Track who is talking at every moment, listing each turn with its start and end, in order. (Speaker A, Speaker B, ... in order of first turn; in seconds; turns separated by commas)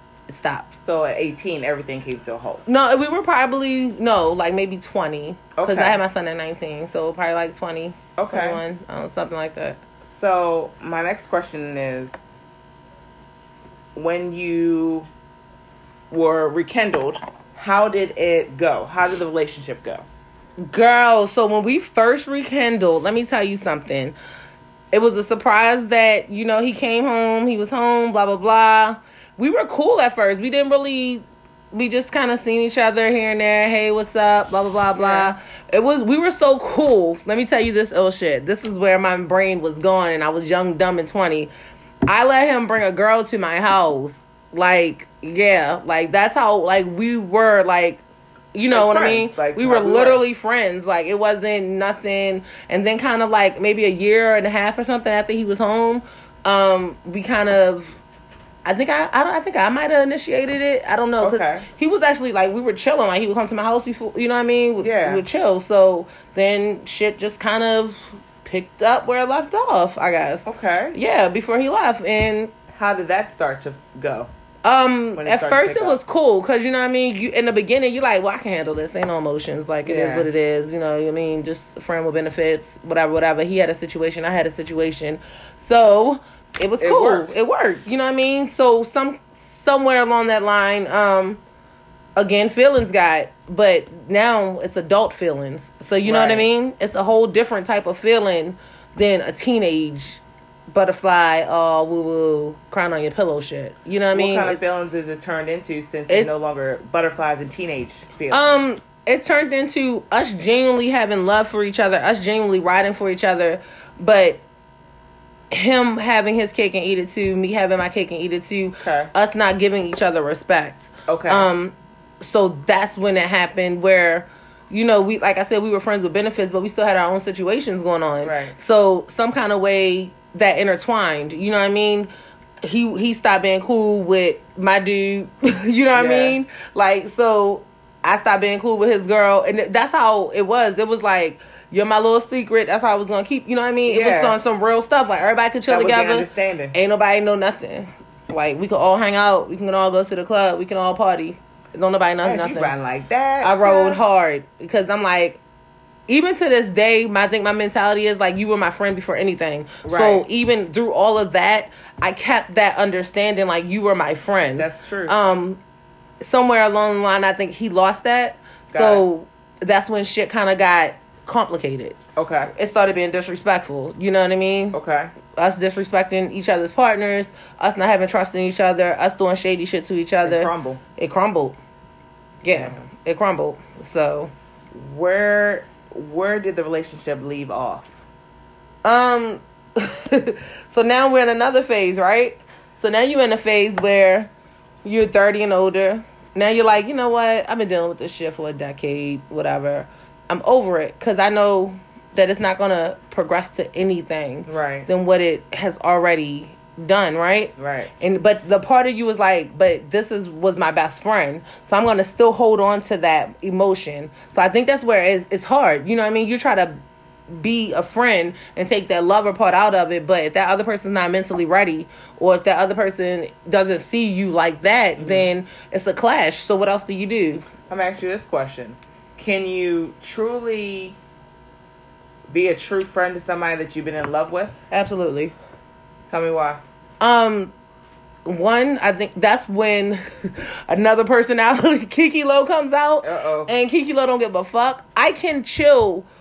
Speaker A: 0.3-0.7, Speaker B: 0.8-2.7, Speaker A: 2.7-9.8, Speaker B: 5.6-6.0, Speaker B: 8.2-8.6, Speaker B: 10.1-12.2, Speaker B: 13.9-15.1, Speaker B: 16.1-20.1, Speaker A: 20.6-24.2, Speaker A: 24.9-41.5, Speaker B: 35.0-35.3, Speaker A: 42.1-48.0, Speaker A: 48.5-58.0, Speaker B: 48.7-50.2, Speaker A: 58.6-72.5, Speaker B: 61.2-61.7, Speaker B: 64.8-65.2, Speaker B: 70.5-71.0, Speaker B: 72.7-74.3, Speaker A: 74.6-91.4, Speaker B: 75.2-76.0, Speaker B: 79.8-80.3, Speaker B: 86.8-87.3, Speaker A: 92.2-104.6, Speaker B: 96.0-96.5, Speaker B: 104.1-108.5, Speaker A: 106.1-106.3, Speaker A: 108.3-114.4, Speaker A: 115.5-132.1, Speaker B: 118.8-119.1, Speaker B: 121.1-121.5, Speaker B: 128.2-128.6, Speaker A: 132.6-152.7, Speaker B: 135.9-136.4, Speaker B: 143.9-144.4, Speaker B: 145.7-146.8, Speaker B: 152.2-154.1, Speaker A: 153.4-155.4, Speaker A: 156.1-165.6, Speaker B: 159.8-160.3, Speaker B: 164.6-165.2, Speaker A: 166.2-172.0, Speaker B: 168.7-169.1, Speaker B: 172.2-172.5, Speaker A: 172.5-174.8, Speaker B: 174.7-175.1, Speaker A: 175.3-181.6, Speaker B: 180.2-180.8, Speaker A: 182.4-184.3, Speaker B: 182.5-182.8, Speaker B: 184.7-188.0, Speaker A: 188.8-194.3, Speaker A: 194.8-216.8, Speaker B: 204.5-204.9, Speaker B: 207.6-207.9, Speaker A: 217.3-227.4, Speaker B: 225.0-225.3, Speaker B: 227.7-231.0, Speaker B: 232.3-234.6, Speaker A: 234.7-235.3, Speaker B: 236.1-236.6, Speaker A: 237.0-237.5, Speaker A: 238.2-246.1, Speaker B: 243.0-243.5